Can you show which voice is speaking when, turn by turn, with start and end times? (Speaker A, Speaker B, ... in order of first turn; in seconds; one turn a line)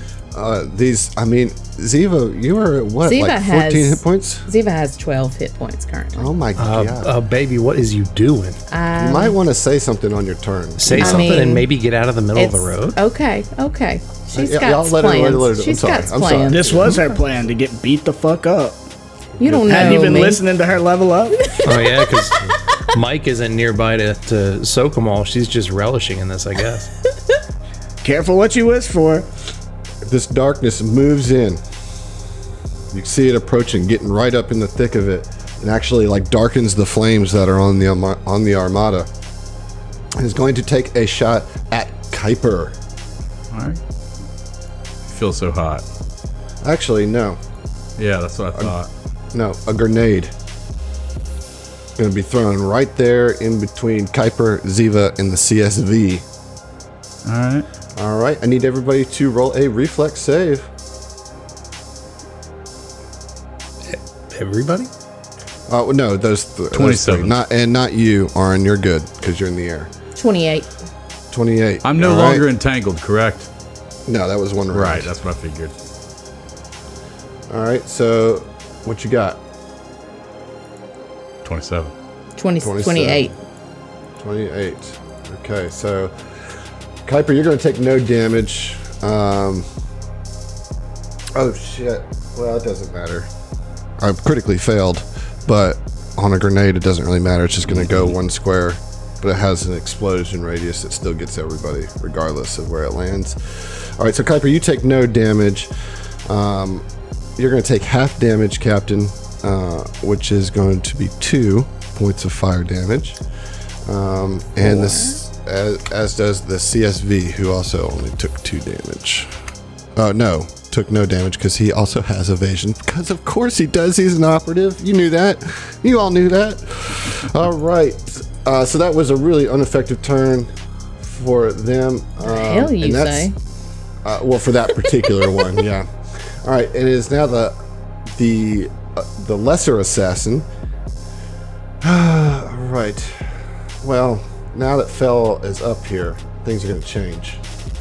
Speaker A: 0.3-4.5
Speaker B: 3.0-6.3
Speaker A: 6.2-7.1
Speaker C: 6.6-8.6
Speaker B: 8.7-9.4
Speaker A: 9.0-11.4
Speaker C: 10.8-13.0
Speaker B: 10.9-11.7
Speaker B: 12.3-17.2
Speaker A: 14.3-17.0
Speaker D: 16.5-18.8
Speaker A: 19.4-19.8
Speaker B: 19.4-20.4
Speaker D: 19.6-21.4
Speaker B: 21.4-22.2
Speaker C: 21.6-26.9
Speaker D: 28.0-29.3
Speaker A: 30.0-31.6
Speaker A: 32.9-39.1
Speaker A: 40.2-42.8
Speaker E: 43.5-43.8
Speaker E: 45.0-45.9
Speaker A: 46.6-47.4
Speaker E: 48.0-48.9
Speaker A: 49.3-50.3
Speaker A: 52.0-56.2
Speaker E: 57.2-57.7
Speaker A: 58.0-60.7
Speaker C: 63.9-64.9
Speaker A: 65.7-69.9
Speaker E: 66.7-67.3
Speaker B: 70.2-70.7
Speaker A: 71.3-72.4
Speaker E: 71.8-73.5
Speaker A: 74.1-75.1
Speaker E: 74.7-75.7
Speaker A: 77.5-79.4
Speaker E: 81.4-81.9
Speaker B: 82.4-83.3
Speaker A: 82.6-83.3
Speaker A: 84.2-86.2
Speaker A: 87.0-89.7
Speaker A: 91.3-93.3
Speaker A: 94.0-105.7
Speaker A: 106.3-106.9
Speaker A: 107.4-113.2
Speaker A: 113.9-119.3
Speaker B: 114.6-115.2
Speaker A: 120.0-133.3
Speaker B: 132.2-133.3
Speaker A: 134.0-135.9
Speaker A: 136.4-137.6
Speaker A: 138.1-140.5
Speaker A: 141.8-147.4